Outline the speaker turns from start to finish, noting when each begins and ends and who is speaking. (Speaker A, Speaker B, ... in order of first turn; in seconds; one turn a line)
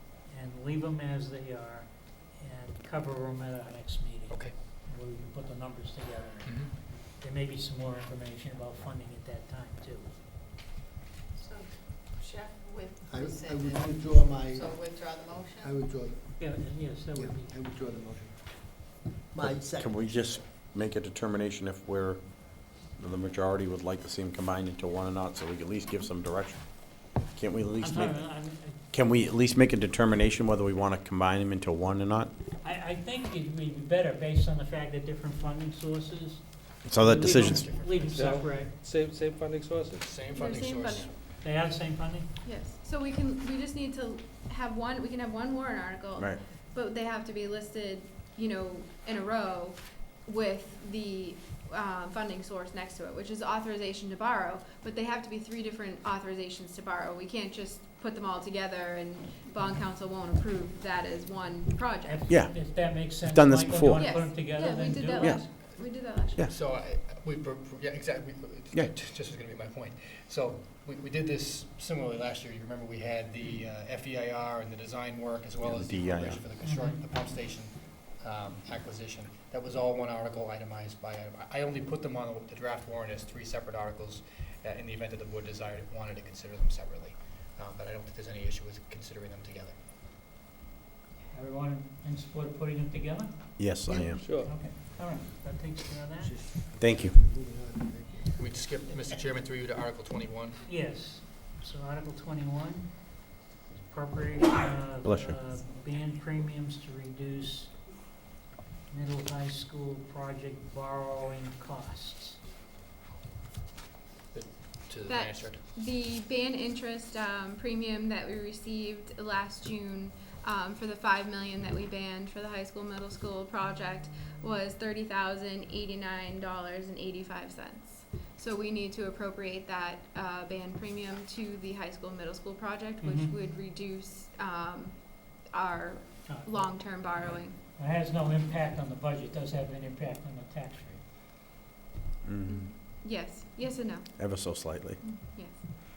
Speaker A: 0.3-10.1
Speaker B: 11.3-15.7
Speaker C: 13.0-18.4
Speaker A: 16.4-17.6
Speaker C: 19.3-20.1
Speaker D: 19.4-32.3
Speaker A: 27.8-28.8
Speaker A: 32.6-38.7
Speaker D: 36.8-37.7
Speaker E: 37.3-38.1
Speaker F: 38.1-40.1
Speaker E: 40.0-41.1
Speaker G: 40.3-41.1
Speaker A: 41.4-42.3
Speaker G: 42.4-62.2
Speaker A: 62.0-65.4
Speaker D: 62.3-64.2
Speaker G: 63.9-66.5
Speaker D: 65.2-66.5
Speaker E: 66.5-89.8
Speaker D: 75.6-76.4
Speaker A: 76.6-77.0
Speaker A: 91.3-93.7
Speaker D: 93.6-94.4
Speaker G: 93.9-94.2
Speaker F: 94.2-94.5
Speaker A: 94.3-96.4
Speaker C: 96.2-98.7
Speaker D: 96.8-97.2
Speaker E: 98.4-100.6
Speaker A: 100.7-103.0
Speaker A: 103.8-107.7
Speaker D: 105.0-105.4
Speaker A: 108.9-112.4
Speaker E: 114.3-115.6
Speaker G: 115.1-135.0
Speaker A: 133.0-133.3
Speaker G: 135.5-137.6
Speaker A: 136.2-137.0
Speaker A: 137.8-141.0
Speaker D: 142.2-142.7
Speaker G: 142.5-144.3
Speaker D: 144.2-145.0
Speaker G: 145.0-145.6